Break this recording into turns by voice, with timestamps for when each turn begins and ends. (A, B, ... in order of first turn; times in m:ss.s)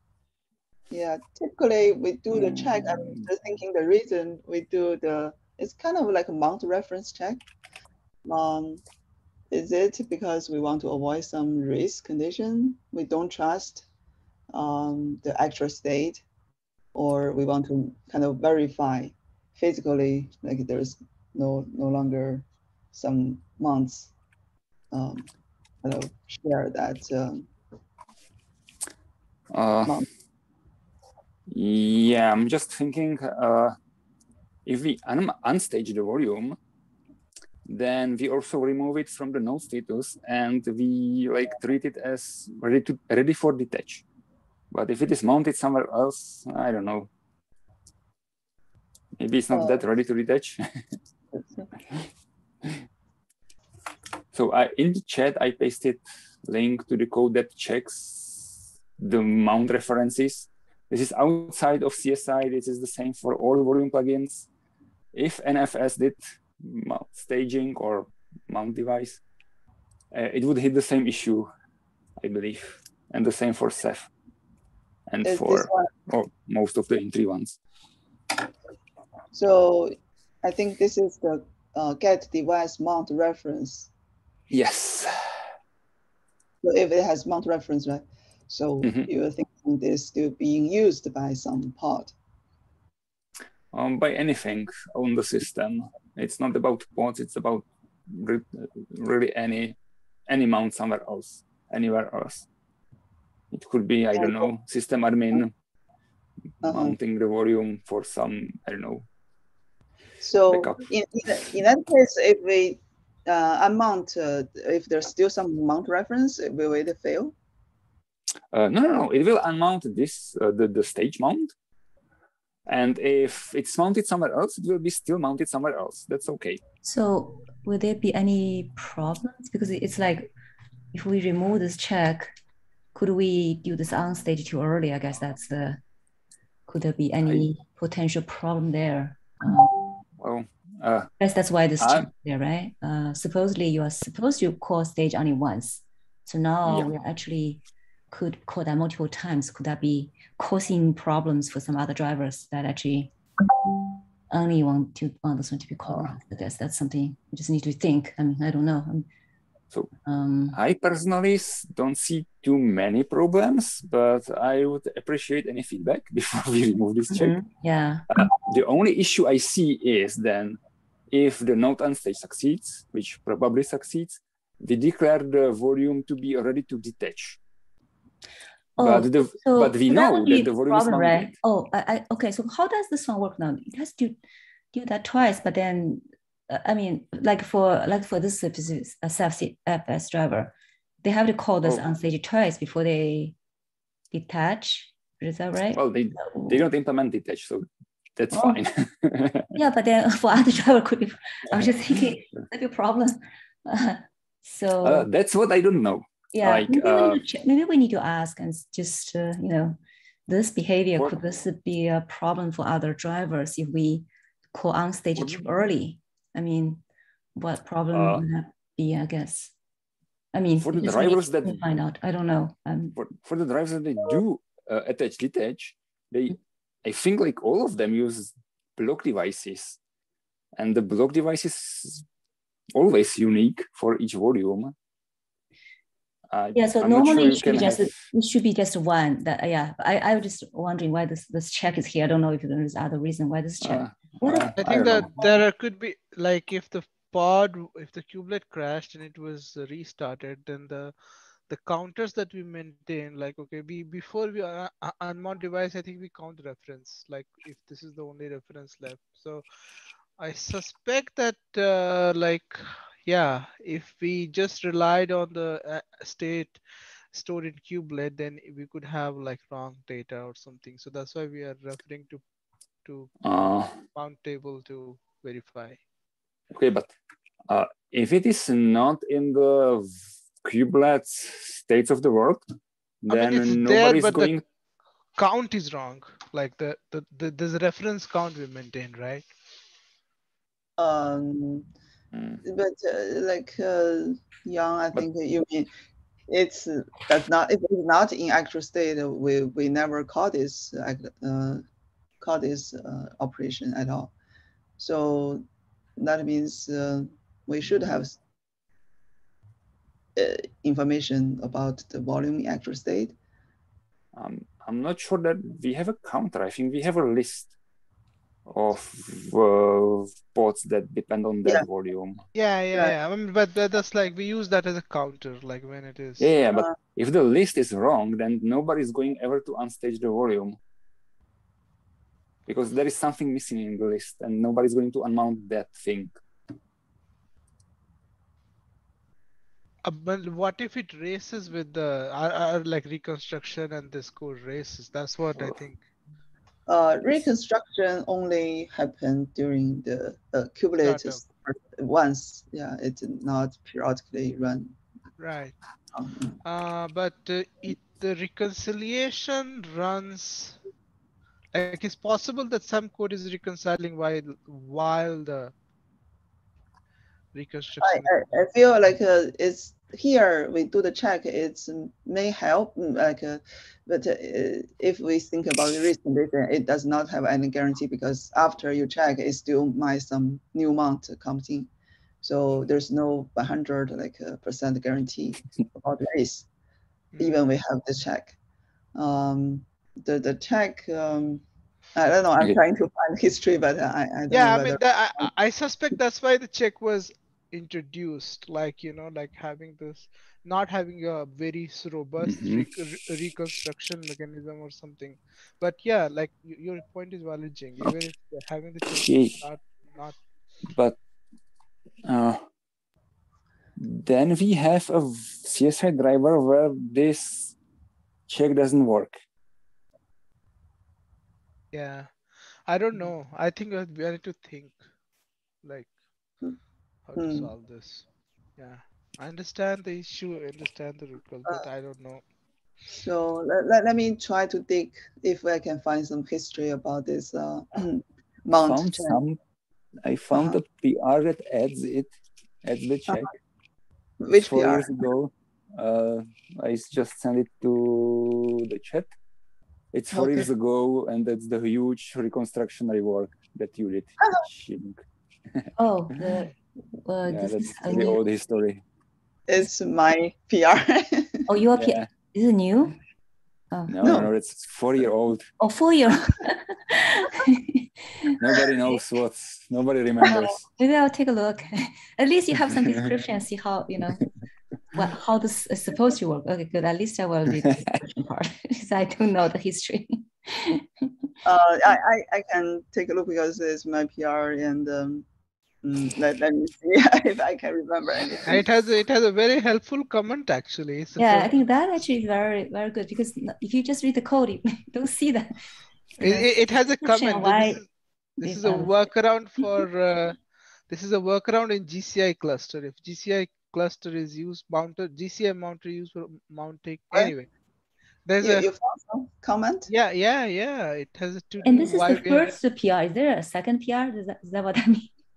0:00.9-0:07.4 A
0:02.3-0:03.3 B
0:08.2-0:08.8 A
0:09.5-0:13.8 A
0:14.5-0:16.2 A
0:16.9-0:24.1 A
0:24.9-0:25.3 A
0:25.8-0:27.5 A
0:29.5-0:30.0 B
0:31.5-0:33.8 B
0:34.6-0:36.6 B
0:37.6-0:44.0 B
0:44.7-0:47.1 B
0:49.2-0:50.6 B
0:49.5-0:49.8 A
0:51.3-0:51.7 A
0:54.3-1:04.5 B
1:05.1-1:09.2 B
1:10.1-1:11.5 B
1:12.2-1:14.1 B
1:15.1-1:17.6 B
1:15.2-1:15.9 A
1:19.3-1:23.9 A
1:24.5-1:25.2 B
1:26.6-1:32.1 A
1:28.8-1:29.1 B
1:33.7-1:39.8 B
1:40.3-1:42.5 B
1:43.5-1:45.5 B
1:44.1-1:44.5 A
1:46.6-1:47.0 A
1:46.6-1:49.0 B
1:50.2-1:57.3 A
1:50.5-1:50.8 B
1:58.5-2:01.5 B
2:02.7-2:06.6 B
2:06.8-2:10.3 C
2:10.9-2:12.3 C
2:12.9-2:15.8 C
2:16.7-2:19.8 C
2:20.2-2:21.1 B
2:21.2-2:33.1 C
2:21.8-2:22.1 B
2:26.6-2:26.9 B
2:34.3-2:39.0 C
2:35.9-2:36.1 B
2:40.0-2:40.6 C
2:40.5-2:47.3 B
2:47.1-2:48.1 C
2:48.1-2:50.6 B
2:51.1-2:57.4 B
2:58.8-3:04.2 C
2:58.8-3:01.3 B
3:04.7-3:13.3 C
3:14.1-3:16.6 C
3:15.7-3:19.5 B
3:18.3-3:18.6 C
3:19.5-3:25.1 C
3:24.8-3:27.2 B
3:26.3-3:29.8 C
3:30.3-3:36.8 C
3:35.2-3:35.4 B
3:37.4-3:39.5 C
3:37.9-3:38.2 B
3:40.3-3:43.0 C
3:40.6-3:41.6 B
3:43.0-3:49.8 B
3:50.6-3:52.0 B
3:52.7-3:54.7 B
3:56.3-3:57.9 B
3:56.5-4:05.3 C
4:03.6-4:05.1 B
4:04.6-4:10.9 D
4:11.5-4:19.4 D
4:20.2-4:26.6 D
4:27.1-4:32.2 D
4:32.8-4:33.1 D
4:33.2-4:33.8 B
4:33.9-4:35.8 D
4:36.5-4:36.9 B
4:37.5-4:39.9 B
4:40.4-4:42.4 B
4:43.0-4:44.4 B
4:43.1-4:44.3 D
4:45.2-4:49.2 D
4:50.8-4:51.7 A
4:52.1-4:52.4 B
4:52.4-4:55.7 A
4:56.3-5:01.6 A
5:02.2-5:04.1 A
5:04.8-5:05.4 A
5:06.0-5:08.2 A
5:10.2-5:13.1 A
5:14.1-5:17.5 B
5:18.5-5:22.2 B
5:22.3-5:26.3 D
5:26.2-5:30.6 B
5:32.5-5:36.1 B
5:39.8-5:45.8 D
5:46.7-5:54.8 A
5:50.8-5:51.2 D
5:55.2-5:55.6 D
5:55.9-5:56.4 A
5:56.4-6:00.6 D
6:01.5-6:05.5 D
6:07.3-6:08.3 D
6:07.8-6:21.7 A
6:22.2-6:26.5 A
6:27.2-6:28.4 A
6:29.0-6:31.4 A
6:32.0-6:35.3 A
6:34.3-6:50.2 D
6:42.2-6:42.7 B
6:48.9-6:49.4 B
6:50.7-6:51.0 B
6:52.0-6:52.4 B
6:53.8-6:57.5 B
6:58.3-6:59.2 B
7:01.7-7:04.8 D
7:05.6-7:05.9 D
7:07.1-7:08.0 D
7:07.2-7:07.5 A
7:08.6-7:12.2 D
7:12.9-7:19.2 A
7:18.6-7:19.4 B
7:20.0-7:22.1 B
7:20.3-7:20.6 A
7:22.6-7:23.3 B
7:24.2-7:25.0 A
7:24.3-7:29.1 B
7:29.9-7:35.0 B
7:30.1-7:30.5 A
7:35.5-7:36.2 B
7:35.8-7:38.2 C
7:37.3-7:38.8 B
7:39.5-7:41.4 A
7:41.5-7:42.9 C
7:41.7-7:42.1 B
7:43.9-7:45.5 B
7:44.0-7:44.3 A
7:45.6-7:48.4 C
7:48.4-7:50.6 B
7:50.2-7:54.3 C
7:52.7-7:53.0 B
7:54.9-8:01.1 C
8:01.4-8:05.2 A
8:05.8-8:08.6 A
8:08.4-8:11.5 D
8:11.2-8:15.5 C
8:16.2-8:17.8 C
8:16.2-8:17.8 D
8:18.4-8:19.8 C
8:18.4-8:20.4 D
8:20.9-8:27.5 D
8:28.2-8:28.7 D
8:28.4-8:29.9 A
8:29.9-8:32.5 D
8:31.6-8:35.1 C